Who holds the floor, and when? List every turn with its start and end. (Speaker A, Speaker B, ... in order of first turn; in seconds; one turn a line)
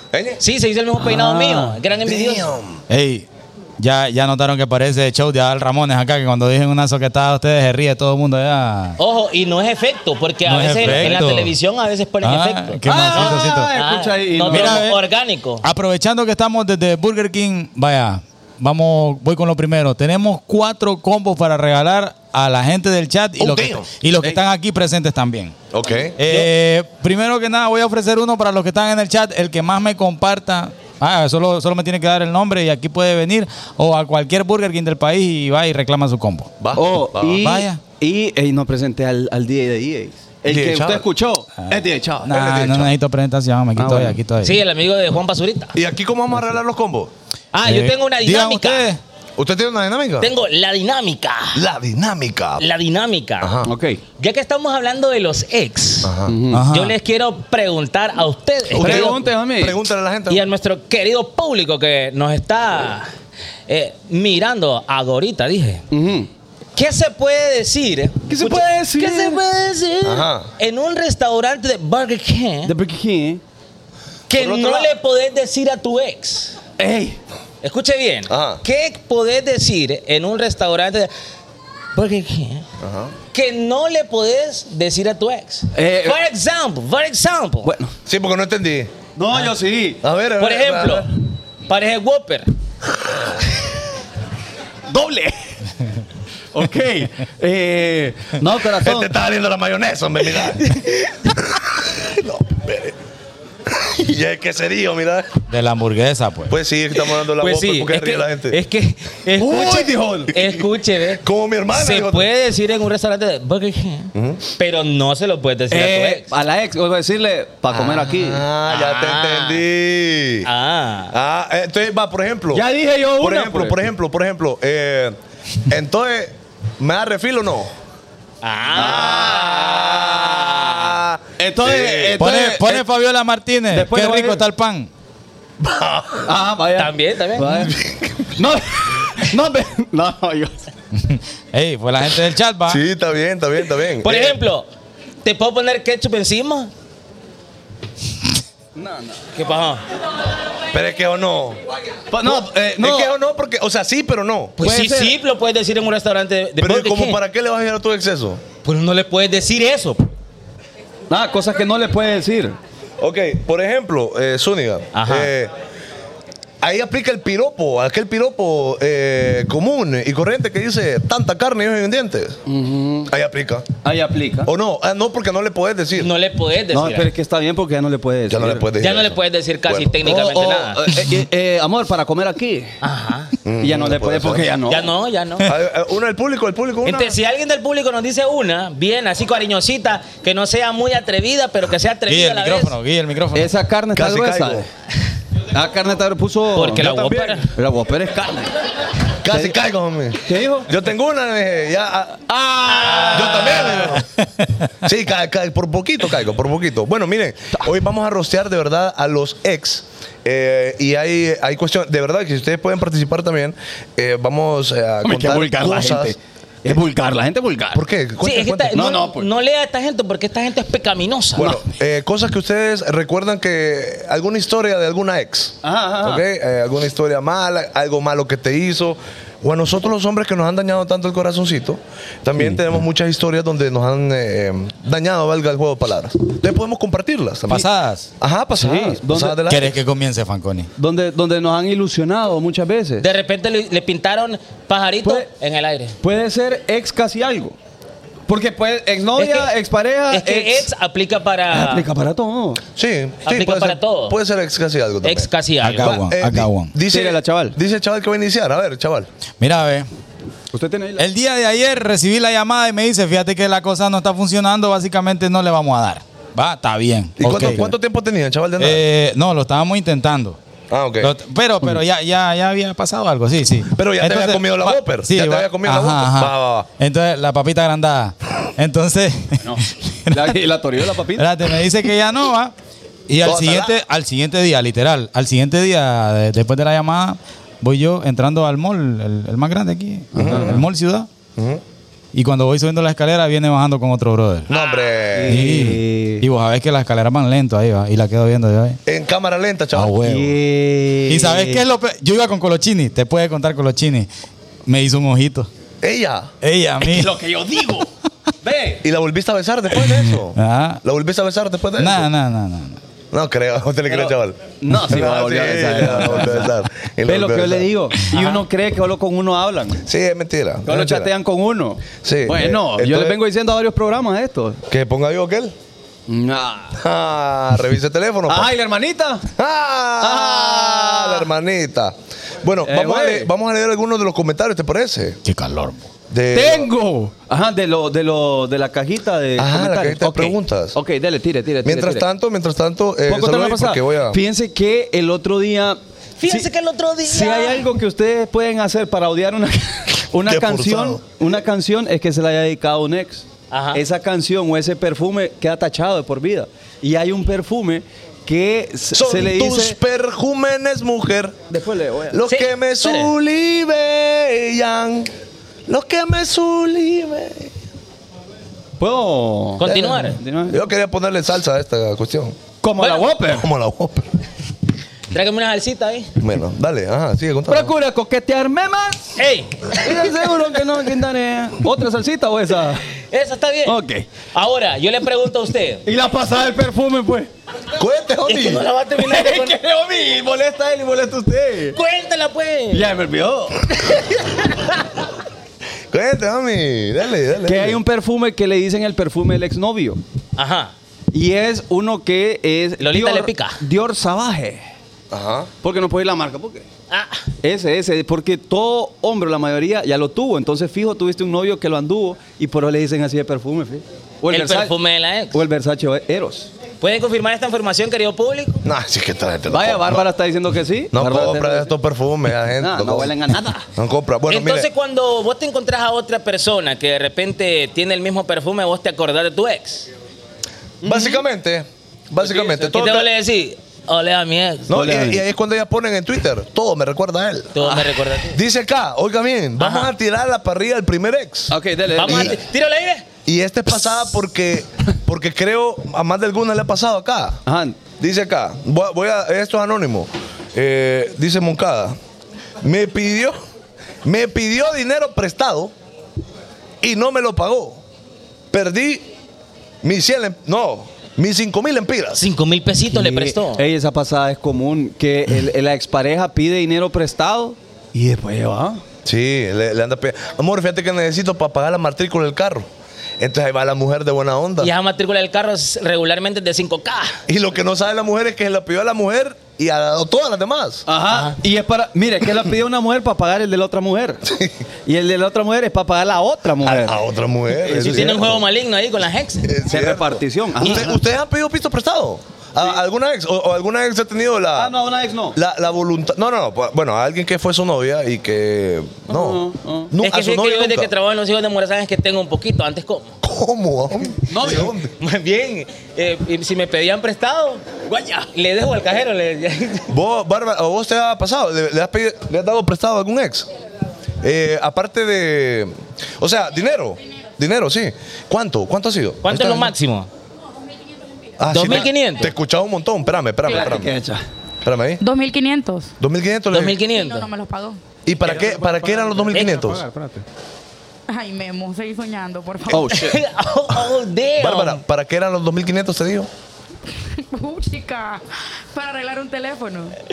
Speaker A: 0.1-0.4
Speaker B: 0.4-2.5
Speaker C: 1.0-1.8
Speaker A: 2.0-2.8
Speaker D: 2.9-3.2
Speaker D: 3.8-9.0
Speaker B: 9.0-15.6
Speaker D: 10.5-11.6
Speaker D: 12.2-13.7
Speaker C: 12.8-14.8
Speaker D: 14.5-15.0
Speaker D: 15.6-25.5
Speaker A: 23.4-23.9
Speaker A: 25.7-26.2
Speaker D: 26.2-36.5
Speaker A: 36.6-37.4
Speaker C: 36.8-42.3
Speaker D: 37.4-37.8
Speaker A: 40.5-41.1
Speaker D: 41.6-44.6
Speaker A: 42.2-42.9
Speaker C: 43.8-44.2
Speaker B: 44.4-45.8
Speaker A: 45.8-47.1
Speaker B: 47.5-48.9
Speaker D: 47.6-49.0
Speaker A: 49.4-50.3
Speaker B: 50.2-51.6
Speaker A: 51.5-52.7
Speaker B: 52.6-53.6
Speaker A: 53.4-53.7
Speaker C: 53.6-54.0
Speaker B: 54.2-56.1
Speaker A: 56.0-56.4
Speaker C: 56.2-56.6
Speaker D: 56.5-57.0
Speaker B: 56.7-59.2
Speaker A: 58.7-60.5
Speaker C: 58.8-59.8
Speaker B: 60.3-63.1
Speaker B: 63.7-65.8
Speaker C: 65.9-66.3
Speaker B: 66.8-72.7
Speaker C: 68.3-69.4
Speaker A: 70.0-70.5
Speaker C: 72.6-73.4
Speaker A: 74.3-74.9
Speaker B: 74.3-76.6
Speaker C: 76.8-77.2
Speaker B: 77.6-81.1
Speaker A: 78.3-78.6
Speaker B: 81.9-82.6
Speaker A: 82.8-83.1
Speaker B: 83.3-87.7
Speaker C: 85.7-86.2
Speaker C: 87.6-87.9
Speaker A: 88.1-88.9
Speaker C: 89.2-90.0
Speaker A: 90.0-91.1
Speaker B: 90.4-91.1
Speaker B: 91.7-92.5
Speaker C: 94.9-95.5
Speaker C: 96.5-99.1
Speaker A: 98.7-103.0
Speaker A: 103.7-105.3
Speaker D: 105.5-106.5
Speaker A: 106.5-108.6
Speaker B: 107.1-116.3
Speaker C: 109.4-110.4
Speaker A: 110.4-112.3
Speaker A: 114.1-114.4
Speaker C: 115.7-118.4
Speaker A: 117.7-120.5
Speaker B: 118.7-119.6
Speaker B: 120.5-121.1
Speaker A: 121.1-122.7
Speaker C: 122.5-123.8
Speaker A: 123.2-127.7
Speaker B: 128.4-130.0
Speaker A: 128.7-132.2
Speaker C: 128.7-130.1
Speaker C: 131.4-132.8
Speaker D: 132.2-134.9
Speaker C: 133.7-134.4
Speaker A: 135.6-136.3
Speaker C: 136.2-137.8
Speaker B: 136.8-137.7
Speaker A: 137.5-138.4
Speaker C: 138.3-140.6
Speaker D: 141.0-142.8
Speaker A: 142.7-144.4
Speaker B: 144.0-144.7
Speaker B: 145.2-146.7
Speaker C: 148.8-149.3
Speaker B: 149.3-149.8
Speaker A: 150.7-151.6
Speaker C: 152.1-153.1
Speaker A: 152.2-154.6
Speaker B: 154.6-157.2
Speaker C: 154.6-155.2
Speaker A: 156.6-158.4
Speaker B: 158.6-160.1
Speaker C: 161.1-162.6
Speaker A: 163.0-165.5
Speaker B: 164.9-165.3
Speaker A: 166.6-172.4
Speaker C: 172.5-173.1
Speaker A: 173.1-173.7
Speaker C: 173.8-174.5
Speaker A: 174.4-176.1
Speaker B: 175.9-177.1
Speaker C: 176.7-178.7
Speaker A: 178.3-180.0
Speaker B: 178.8-180.8
Speaker C: 180.0-182.7
Speaker B: 182.8-183.3
Speaker A: 183.4-184.5
Speaker C: 183.6-184.9
Speaker B: 184.7-185.5
Speaker A: 185.4-187.2
Speaker B: 186.8-192.8
Speaker D: 192.1-193.5
Speaker C: 193.3-194.7
Speaker A: 193.9-194.7
Speaker C: 195.5-198.6
Speaker B: 196.5-197.5
Speaker A: 199.2-202.3
Speaker C: 199.3-199.6
Speaker C: 200.2-200.7
Speaker C: 202.3-204.0
Speaker B: 202.6-203.8
Speaker A: 203.0-204.1
Speaker A: 204.8-216.2
Speaker C: 215.0-217.8
Speaker A: 217.7-219.0
Speaker B: 218.2-221.6
Speaker C: 218.7-219.3
Speaker A: 221.3-237.7
Speaker C: 225.6-226.2
Speaker D: 237.5-238.1
Speaker A: 238.2-239.8
Speaker C: 238.6-239.4
Speaker D: 239.5-240.7
Speaker C: 240.8-243.0
Speaker B: 243.0-246.0
Speaker C: 245.0-245.3
Speaker C: 246.0-247.6
Speaker C: 248.3-250.7
Speaker B: 249.2-249.5
Speaker B: 250.1-251.9
Speaker C: 251.5-252.6
Speaker A: 252.8-259.1
Speaker B: 253.2-254.2
Speaker B: 255.0-255.9
Speaker D: 255.6-256.7
Speaker C: 256.9-257.6
Speaker D: 259.4-259.9
Speaker C: 260.5-261.0
Speaker D: 261.0-267.7
Speaker A: 267.2-268.8
Speaker D: 268.6-270.4
Speaker A: 270.7-271.1
Speaker D: 271.0-280.4
Speaker A: 273.7-276.7
Speaker C: 279.4-281.2
Speaker D: 281.2-282.5
Speaker D: 283.1-291.1
Speaker A: 283.2-283.8
Speaker C: 290.1-290.6
Speaker A: 290.1-290.6
Speaker A: 291.4-291.6
Speaker D: 292.1-294.5
Speaker A: 294.5-295.5
Speaker B: 294.5-294.9
Speaker C: 295.1-296.2
Speaker D: 295.3-298.8
Speaker A: 298.9-300.1
Speaker D: 299.8-300.4
Speaker C: 300.0-301.6
Speaker D: 301.1-304.1
Speaker D: 304.7-305.5
Speaker A: 305.8-306.3
Speaker D: 306.4-307.1
Speaker C: 306.8-307.9
Speaker C: 308.4-308.8
Speaker A: 308.8-312.1
Speaker D: 309.9-310.8
Speaker D: 311.8-312.8
Speaker A: 313.1-317.7
Speaker C: 313.9-316.5
Speaker C: 317.1-319.8
Speaker A: 319.8-321.1
Speaker C: 320.6-324.6
Speaker A: 322.0-323.2
Speaker A: 324.7-325.5
Speaker C: 326.1-326.8
Speaker A: 326.8-328.5
Speaker C: 328.3-329.3
Speaker A: 329.4-335.2
Speaker C: 330.0-331.3
Speaker C: 332.6-333.3
Speaker D: 335.2-335.9
Speaker A: 336.1-336.7
Speaker C: 336.3-342.1
Speaker A: 339.4-340.8
Speaker A: 341.6-344.2
Speaker C: 343.1-346.5
Speaker B: 346.2-347.6
Speaker C: 347.0-359.8
Speaker A: 350.2-351.0
Speaker B: 353.5-353.8
Speaker A: 358.9-361.4
Speaker C: 361.5-362.2
Speaker A: 362.1-365.1
Speaker B: 362.3-363.1
Speaker A: 365.7-367.5
Speaker C: 368.8-370.6
Speaker B: 369.6-370.2
Speaker A: 369.6-372.4
Speaker C: 372.6-373.5
Speaker B: 372.8-373.1
Speaker A: 373.3-374.2
Speaker B: 375.1-376.1
Speaker A: 376.2-377.7
Speaker C: 377.5-379.2
Speaker B: 379.2-380.0
Speaker C: 379.7-382.9
Speaker B: 383.1-383.8
Speaker C: 383.6-384.1
Speaker B: 384.3-385.8
Speaker C: 385.9-387.3
Speaker A: 387.8-388.7
Speaker B: 388.2-389.6
Speaker C: 389.0-391.8
Speaker B: 391.7-392.9
Speaker C: 392.7-393.7
Speaker B: 393.8-394.6
Speaker A: 395.9-397.8
Speaker C: 397.4-400.0
Speaker B: 400.4-400.7
Speaker C: 401.1-404.6
Speaker B: 402.8-403.6
Speaker A: 405.1-405.5
Speaker C: 405.6-406.6
Speaker B: 406.9-407.2
Speaker C: 407.4-414.7
Speaker B: 414.3-415.4
Speaker C: 415.3-416.5
Speaker B: 416.8-418.6
Speaker A: 418.6-420.1
Speaker C: 419.5-421.7
Speaker A: 420.9-423.1
Speaker C: 422.6-423.7
Speaker A: 423.8-424.7
Speaker B: 424.3-429.9
Speaker C: 430.8-431.2
Speaker A: 430.8-433.1
Speaker C: 432.2-432.5
Speaker B: 432.4-434.8
Speaker A: 434.7-437.6
Speaker C: 434.7-435.2
Speaker B: 437.5-438.4
Speaker C: 437.6-438.0
Speaker A: 438.3-442.4
Speaker B: 439.6-439.9
Speaker C: 441.5-442.4
Speaker B: 441.9-443.1
Speaker A: 443.2-447.4
Speaker C: 447.5-447.8
Speaker A: 448.0-452.0
Speaker A: 452.6-453.4
Speaker A: 454.0-455.7
Speaker A: 456.8-457.8
Speaker A: 458.5-459.1
Speaker A: 459.8-462.3
Speaker B: 462.2-463.6
Speaker C: 462.9-468.8
Speaker A: 469.0-472.7
Speaker A: 473.2-474.7
Speaker B: 474.6-477.2
Speaker A: 477.3-480.9
Speaker C: 480.9-484.2
Speaker B: 481.1-481.4
Speaker A: 484.2-484.6
Speaker C: 484.9-487.0
Speaker A: 486.6-488.4
Speaker C: 487.6-488.3
Speaker B: 487.8-489.6
Speaker A: 489.4-494.8
Speaker C: 489.7-491.0
Speaker C: 494.6-495.4
Speaker A: 495.3-500.9
Speaker C: 499.1-499.9
Speaker B: 500.0-503.1
Speaker A: 503.2-504.9
Speaker C: 504.3-504.7
Speaker B: 505.0-507.6
Speaker C: 507.9-508.3
Speaker B: 508.3-509.9
Speaker A: 509.9-513.5
Speaker A: 514.2-519.7
Speaker B: 519.2-520.1
Speaker A: 521.4-523.9
Speaker B: 521.5-522.3
Speaker C: 523.5-524.2
Speaker A: 524.6-525.0
Speaker E: 525.0-525.9
Speaker A: 526.0-526.8
Speaker B: 526.5-527.3
Speaker E: 526.9-527.8
Speaker A: 528.0-529.8
Speaker C: 528.3-529.2
Speaker B: 529.3-529.8
Speaker C: 529.9-530.2
Speaker E: 531.1-532.9
Speaker C: 532.7-533.2
Speaker B: 532.9-534.8
Speaker A: 534.4-536.3
Speaker E: 537.3-540.0